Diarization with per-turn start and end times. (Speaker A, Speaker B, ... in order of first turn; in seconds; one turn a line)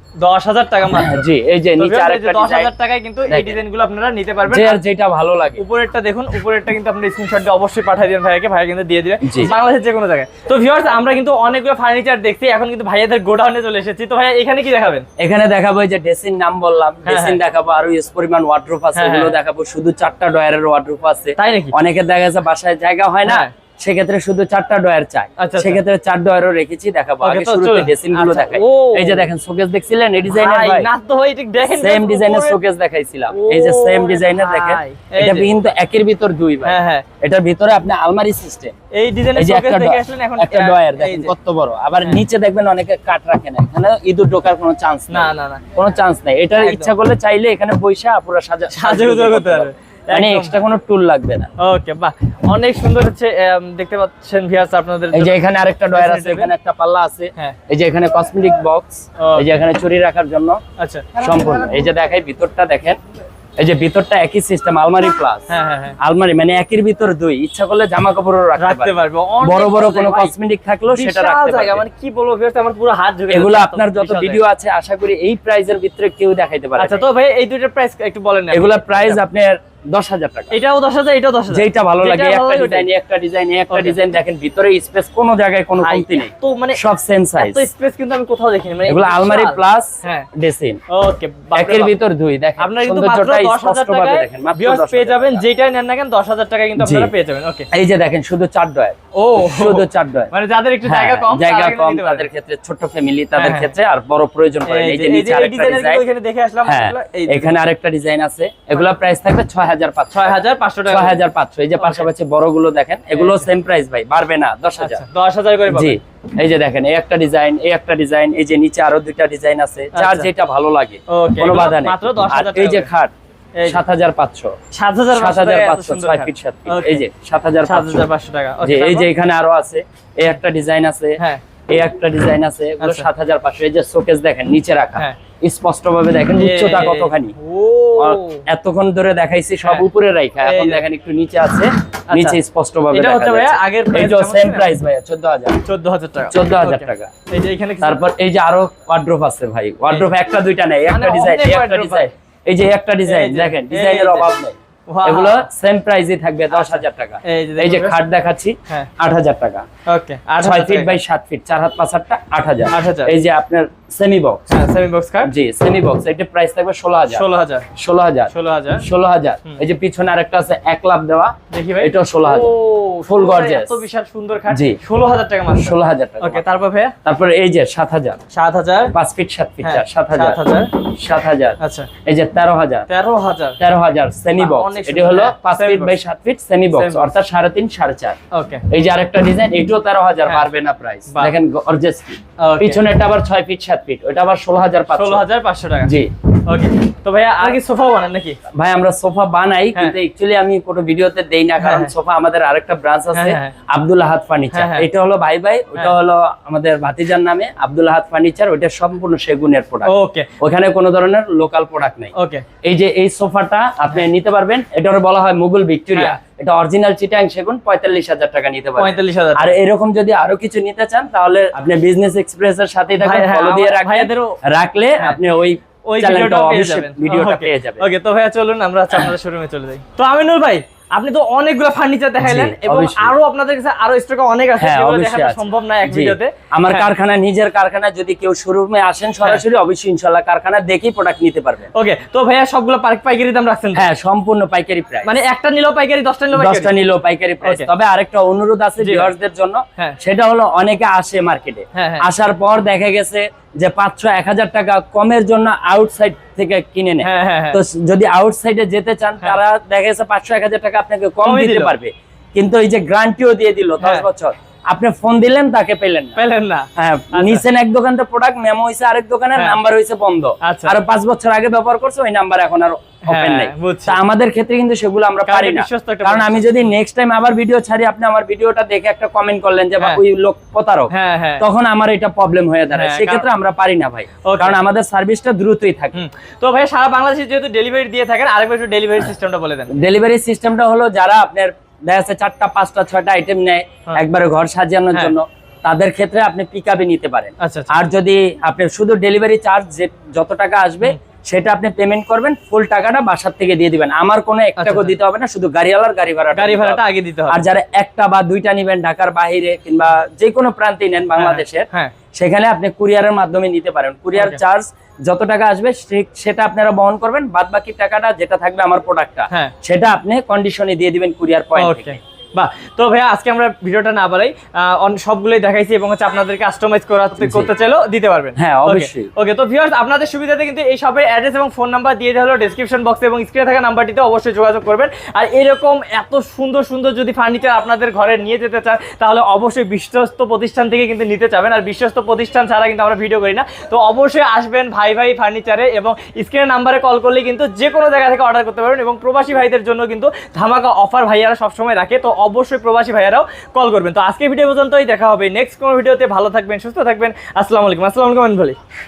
Speaker A: 0.2-1.2
Speaker B: 0.9-2.7
Speaker A: 1.8-4.8
Speaker B: 3.3-3.5
Speaker B: 4.5-5.6
Speaker A: 5.6-15.1
Speaker B: 9.2-9.5
Speaker B: 15.2-30.9
Speaker A: 17.1-17.4
Speaker A: 18.9-19.4
Speaker A: 21.4-21.8
Speaker A: 23.2-23.5
Speaker A: 25.4-25.8
Speaker A: 27.2-29.3
Speaker A: 30.3-32.6
Speaker B: 31.6-38.7
Speaker A: 33.3-35.5
Speaker A: 36.6-37.0
Speaker A: 38.9-41.3
Speaker B: 39.3-51.5
Speaker A: 45.1-45.6
Speaker A: 46.6-46.9
Speaker A: 48.7-50.6
Speaker A: 51.6-55.4
Speaker B: 55.1-60.6
Speaker A: 55.9-56.5
Speaker A: 59.2-59.5
Speaker A: 60.8-61.3
Speaker B: 61.2-63.0
Speaker B: 63.6-71.8
Speaker A: 65.5-66.0
Speaker A: 68.6-70.3
Speaker A: 70.9-74.4
Speaker B: 73.3-77.0
Speaker A: 76.8-79.2
Speaker B: 78.5-80.6
Speaker A: 80.5-82.9
Speaker B: 81.5-87.7
Speaker A: 83.7-84.0
Speaker A: 85.8-86.8
Speaker A: 87.4-90.3
Speaker B: 88.9-90.8
Speaker A: 90.9-92.0
Speaker B: 91.5-95.4
Speaker A: 92.6-97.7
Speaker B: 96.8-97.1
Speaker B: 97.7-100.3
Speaker A: 99.1-102.3
Speaker B: 100.8-106.0
Speaker A: 103.3-103.7
Speaker A: 104.7-107.6
Speaker B: 106.6-115.0
Speaker A: 110.1-111.2
Speaker A: 111.8-112.1
Speaker A: 113.1-113.5
Speaker A: 114.8-116.0
Speaker B: 115.7-123.1
Speaker A: 119.9-120.3
Speaker A: 121.1-122.9
Speaker B: 123.6-124.5
Speaker A: 124.7-127.0
Speaker B: 125.1-128.0
Speaker A: 127.6-129.1
Speaker B: 128.6-137.3
Speaker A: 132.8-133.1
Speaker A: 136.3-138.4
Speaker B: 138.0-145.6
Speaker A: 139.6-139.9
Speaker A: 140.4-140.8
Speaker A: 142.1-142.4
Speaker A: 142.9-144.7
Speaker A: 145.6-148.0
Speaker B: 146.3-147.1
Speaker B: 147.8-159.7
Speaker A: 150.9-152.1
Speaker A: 153.1-154.3
Speaker A: 154.9-155.4
Speaker A: 156.5-157.9
Speaker A: 159.8-161.0
Speaker B: 160.4-164.5
Speaker A: 162.7-163.1
Speaker A: 164.5-165.3
Speaker B: 165.2-167.2
Speaker A: 167.1-167.7
Speaker B: 167.8-172.5
Speaker A: 168.3-168.8
Speaker A: 171.5-176.9
Speaker B: 173.0-173.8
Speaker B: 174.5-174.8
Speaker B: 175.5-176.4
Speaker B: 177.0-178.2
Speaker A: 178.3-178.9
Speaker B: 178.9-182.9
Speaker A: 179.6-180.7
Speaker A: 181.6-181.9
Speaker A: 182.9-183.6
Speaker B: 183.6-188.2
Speaker A: 184.3-185.9
Speaker A: 186.7-187.1
Speaker A: 188.3-188.6
Speaker B: 188.7-195.2
Speaker A: 192.4-192.8
Speaker A: 194.9-198.4
Speaker B: 195.8-196.1
Speaker B: 198.5-227.8
Speaker A: 201.6-201.9
Speaker A: 203.1-203.5
Speaker A: 204.5-204.9
Speaker A: 209.8-210.3
Speaker A: 212.1-212.4
Speaker A: 218.8-219.5
Speaker A: 223.0-224.4
Speaker A: 225.9-236.9
Speaker B: 232.2-233.1
Speaker B: 234.6-241.7
Speaker A: 241.7-243.8
Speaker B: 243.7-245.1
Speaker A: 245.0-246.7
Speaker B: 246.3-266.2
Speaker A: 247.4-247.7
Speaker A: 248.8-249.1
Speaker A: 251.7-252.1
Speaker A: 257.0-257.6
Speaker A: 261.2-261.7
Speaker A: 263.8-264.1
Speaker A: 266.1-267.4
Speaker B: 266.7-286.0
Speaker A: 269.3-269.6
Speaker A: 270.4-270.7
Speaker A: 273.1-274.0
Speaker A: 275.3-276.7
Speaker A: 280.9-281.4
Speaker A: 282.7-283.3
Speaker A: 284.2-284.6
Speaker A: 285.9-289.7
Speaker B: 289.7-322.0
Speaker A: 297.4-297.8
Speaker A: 304.6-305.0
Speaker A: 306.3-307.4
Speaker A: 311.1-311.9
Speaker A: 314.1-314.4
Speaker A: 321.5-358.6
Speaker B: 327.2-327.5
Speaker B: 328.4-329.1